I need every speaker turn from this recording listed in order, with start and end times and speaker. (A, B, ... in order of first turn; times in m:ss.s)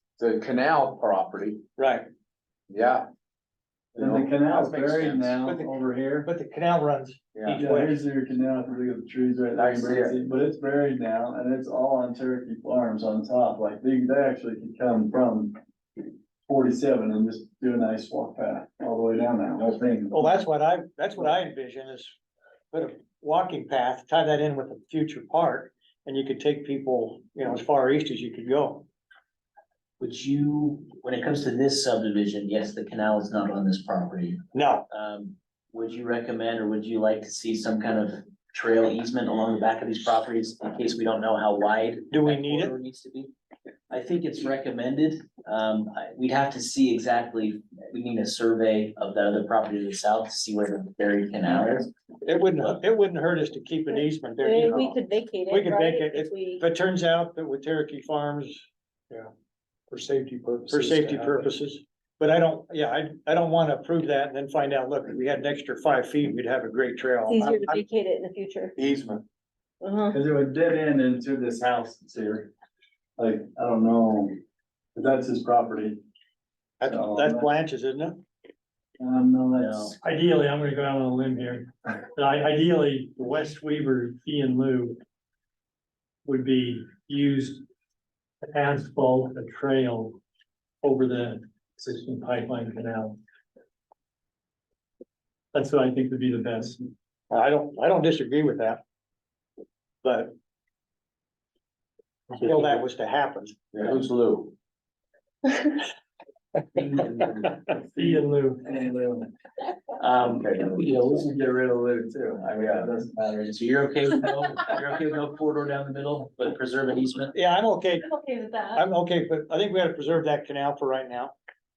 0:00.2-0:01.6 A
0:01.8-0:02.1 B
0:02.7-0:03.1 A
0:03.9-0:05.4 A
0:04.0-0:06.3 C
0:05.4-0:08.0 B
0:07.3-0:07.6 A
0:07.5-0:15.6 C
0:09.5-0:10.2 A
0:16.5-0:20.2 C
0:20.1-0:22.1 B
0:22.7-0:28.9 B
0:30.0-0:43.3 D
0:34.5-0:34.8 B
0:42.1-0:42.7 B
0:43.9-0:51.9 D
0:52.2-0:59.2 B
0:53.9-0:56.6 E
1:00.0-1:07.7 B
1:00.8-1:01.4 C
1:07.3-1:08.8 E
1:08.8-1:09.2 A
1:09.8-1:10.2 E
1:10.1-1:12.5 C
1:13.2-1:14.4 C
1:15.0-1:16.0 C
1:16.8-1:18.2 B
1:16.8-1:17.5 C
1:19.0-1:20.0 C
1:19.5-1:20.0 D
1:20.0-1:25.0 F
1:26.2-1:27.6 F
1:28.5-1:30.2 F
1:30.8-1:33.2 F
1:35.5-1:36.9 F
1:37.3-1:38.8 B
1:40.0-1:40.3 B
1:42.3-1:43.6 B
1:43.7-1:44.5 A
1:47.8-1:49.3 C
1:48.0-1:48.6 F
1:50.0-1:51.3 D
1:50.2-1:51.0 A
1:50.8-1:53.2 C
1:52.4-1:52.9 A
1:53.2-1:57.4 D
1:57.3-1:58.1 B
1:58.0-1:58.8 E
1:58.8-2:01.3 B